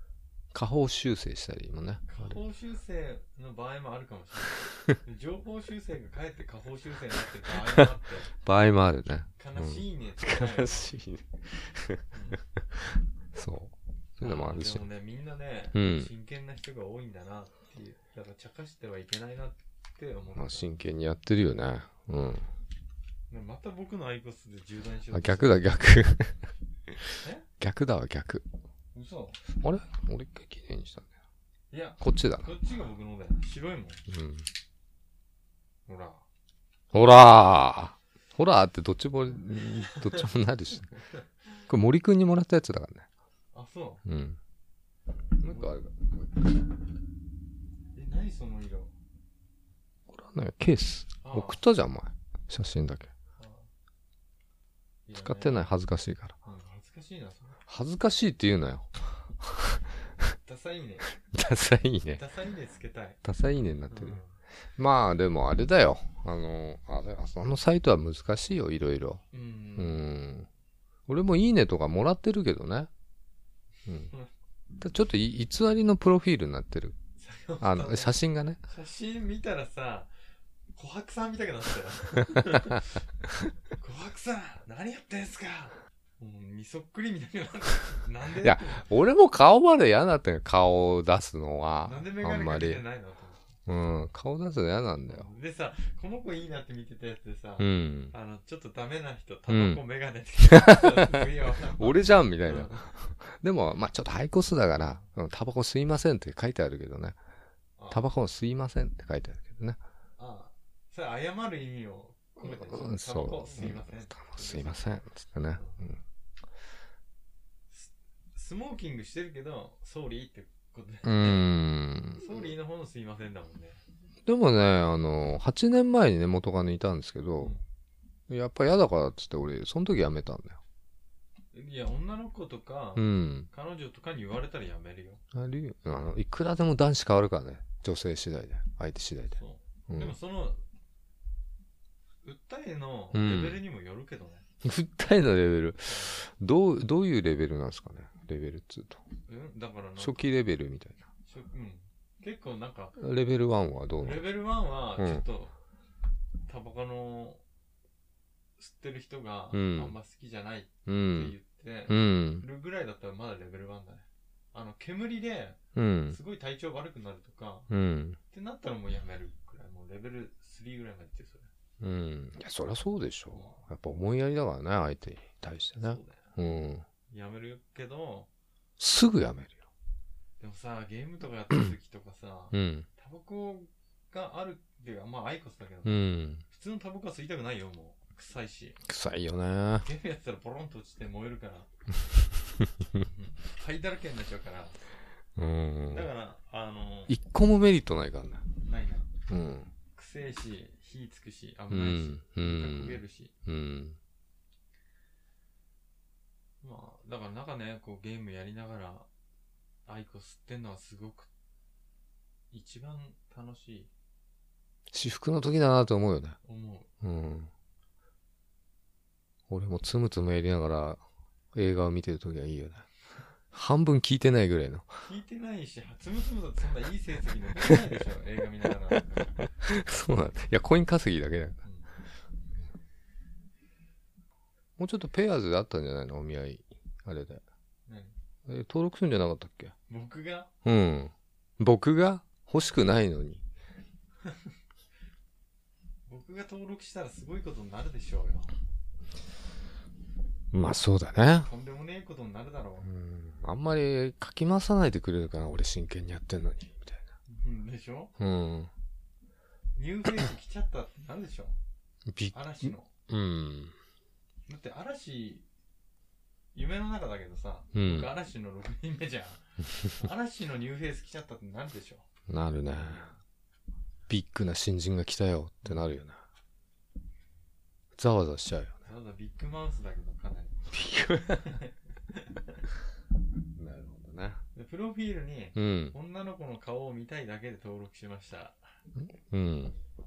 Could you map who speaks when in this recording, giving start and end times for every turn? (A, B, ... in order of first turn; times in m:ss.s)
0:00.5-0:02.4 A
0:02.1-0:08.3 B
0:07.5-0:14.8 A
0:09.4-0:10.9 B
0:12.1-0:12.4 B
0:14.2-0:20.6 B
0:15.7-0:16.1 A
0:20.3-0:22.5 A
0:23.3-0:25.7 B
0:25.1-0:26.4 A
0:26.9-0:28.4 A
0:28.9-0:29.4 B
0:29.5-0:31.1 A
0:31.7-0:34.0 B
0:32.0-0:32.5 A
0:34.1-0:34.5 A
0:35.9-0:36.2 B
0:36.9-0:40.9 A
0:39.6-0:40.2 B
0:41.7-0:43.1 A
0:43.5-0:44.0 B
0:44.0-0:44.4 A
0:45.4-0:46.4 A
0:45.4-0:45.8 B
0:47.9-0:48.9 B
0:50.1-0:53.1 A
0:51.2-0:51.6 B
0:53.4-0:53.7 B
0:55.1-0:55.7 B
0:55.2-0:56.4 A
0:56.4-0:57.6 B
0:57.7-1:00.3 A
1:00.4-1:01.1 B
1:01.2-1:02.2 A
1:02.1-1:03.2 B
1:03.2-1:04.2 A
1:03.9-1:04.4 B
1:04.8-1:09.2 A
1:09.3-1:10.0 B
1:09.8-1:10.5 A
1:11.1-1:12.9 A
1:14.0-1:14.3 B
1:14.8-1:17.0 A
1:17.2-1:18.2 B
1:17.6-1:18.6 A
1:18.7-1:20.1 B
1:20.7-1:23.0 B
1:23.8-1:28.9 B
1:28.4-1:32.8 A
1:31.8-1:33.6 B
1:33.7-1:35.3 A
1:35.1-1:42.9 B
1:37.6-1:38.1 A
1:39.5-1:39.8 A
1:40.4-1:47.2 A
1:47.8-1:48.1 B
1:47.9-1:49.8 A
1:50.2-1:54.9 B
1:52.4-1:56.0 A
1:55.6-1:55.8 B
1:57.7-2:01.5 B
2:01.0-2:02.4 A
2:02.2-2:03.8 B
2:04.2-2:07.5 A
2:07.4-2:07.6 B
2:08.3-2:10.6 A
2:11.5-2:15.2 B
2:13.0-2:13.5 A
2:15.3-2:20.2 A
2:19.3-2:20.6 B
2:22.2-2:24.4 B
2:23.1-2:23.6 A
2:24.6-2:29.0 A
2:25.8-2:26.2 B
2:29.3-2:30.3 B
2:30.0-2:31.0 A
2:31.2-2:33.0 B
2:33.0-2:34.2 A
2:34.0-2:35.5 B
2:35.0-2:35.2 A
2:36.5-2:37.4 B
2:38.6-2:45.6 B
2:39.5-2:39.9 A
2:40.9-2:41.3 A
2:41.9-2:42.4 A
2:45.7-2:46.2 A
2:46.1-2:47.7 B
2:47.7-2:48.2 A
2:48.3-2:51.5 B
2:51.8-2:56.8 A
2:53.3-2:53.6 B
2:55.8-2:56.3 B
2:57.1-2:58.3 B
2:58.8-2:59.6 A
3:00.4-3:08.8 B
3:02.5-3:02.9 A
3:05.8-3:06.4 A
3:08.8-3:09.9 A
3:09.8-3:11.7 B
3:12.6-3:13.0 A
3:13.0-3:14.8 B
3:15.4-3:16.1 A
3:15.9-3:17.2 B
3:17.1-3:18.4 A
3:18.6-3:19.1 B
3:19.3-3:19.7 A
3:19.9-3:23.3 B
3:21.7-3:24.0 A
3:26.6-3:29.1 B
3:29.8-3:31.3 B
3:32.5-3:33.9 B
3:34.9-3:36.4 A
3:36.4-3:36.9 B
3:37.0-3:37.5 A
3:39.5-3:41.0 A
3:41.5-3:42.9 A
3:43.5-3:44.9 A
3:45.0-3:49.5 B
3:49.6-3:51.6 A
3:51.6-3:51.9 B
3:54.8-3:57.4 A
3:57.9-3:58.1 B
3:58.4-3:59.7 A
3:59.9-4:00.5 B
4:00.6-4:03.4 A
4:06.1-4:08.5 B
4:10.5-4:11.5 A
4:11.4-4:12.9 B
4:12.8-4:17.0 A
4:17.3-4:18.1 B
4:18.2-4:18.7 A
4:19.8-4:21.6 B
4:22.1-4:23.7 A
4:22.3-4:22.9 B
4:24.5-4:25.4 B
4:26.5-4:32.1 B
4:27.7-4:28.1 A
4:32.3-4:33.1 A
4:32.8-4:33.1 B
4:34.1-4:36.2 A
4:35.6-4:36.0 B
4:38.0-4:38.8 A
4:38.8-4:40.7 B
4:40.7-4:41.5 A
4:41.3-4:42.6 B
4:43.5-4:44.4 A
4:44.5-4:48.6 B
4:45.6-4:45.9 A
4:48.9-4:49.8 A